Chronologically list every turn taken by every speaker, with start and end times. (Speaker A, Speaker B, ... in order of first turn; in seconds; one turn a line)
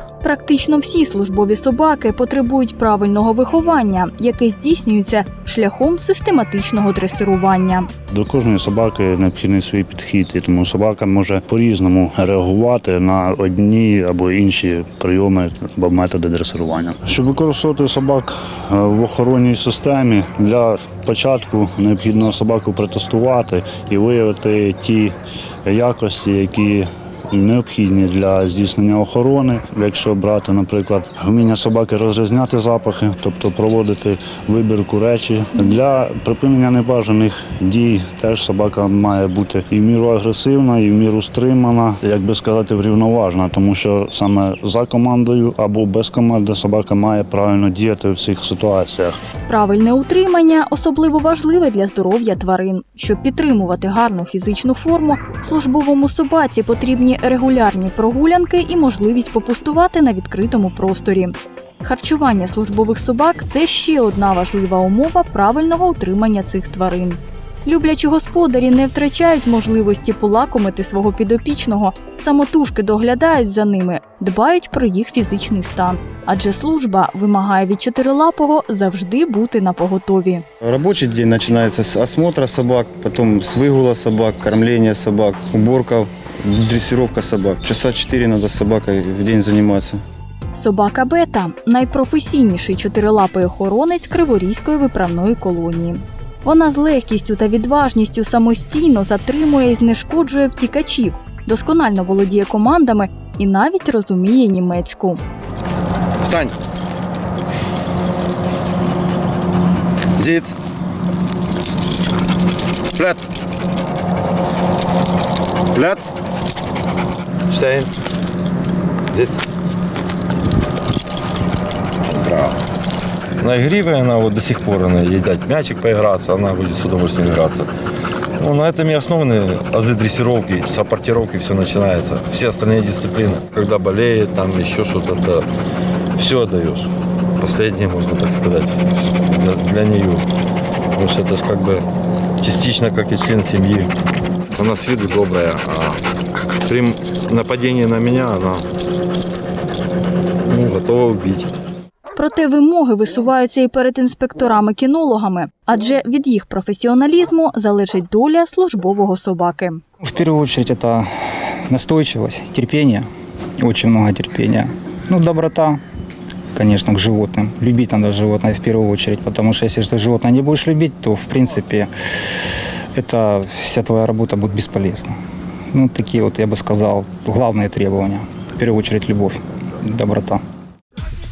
Speaker A: 0.2-7.9
Speaker B: 8.1-49.2
Speaker A: 49.5-80.4
Speaker C: 80.6-90.0
Speaker A: 90.5-105.2
Speaker D: 106.2-106.5
Speaker D: 110.2-110.5
Speaker D: 112.9-113.2
Speaker D: 115.7-116.1
Speaker D: 117.5-117.9
Speaker D: 119.1-119.4
Speaker D: 122.0-122.6
Speaker D: 123.4-127.7
Speaker D: 128.4-135.4
Speaker D: 136.2-140.2
Speaker D: 140.9-141.8
Speaker D: 142.4-143.9
Speaker D: 144.6-146.0
Speaker D: 146.6-148.6
Speaker D: 150.5-151.5
Speaker A: 152.1-159.8
Speaker E: 160.0-163.1
Speaker E: 163.6-165.8
Speaker E: 166.5-172.3
Speaker E: 172.9-175.2
Speaker E: 175.7-180.4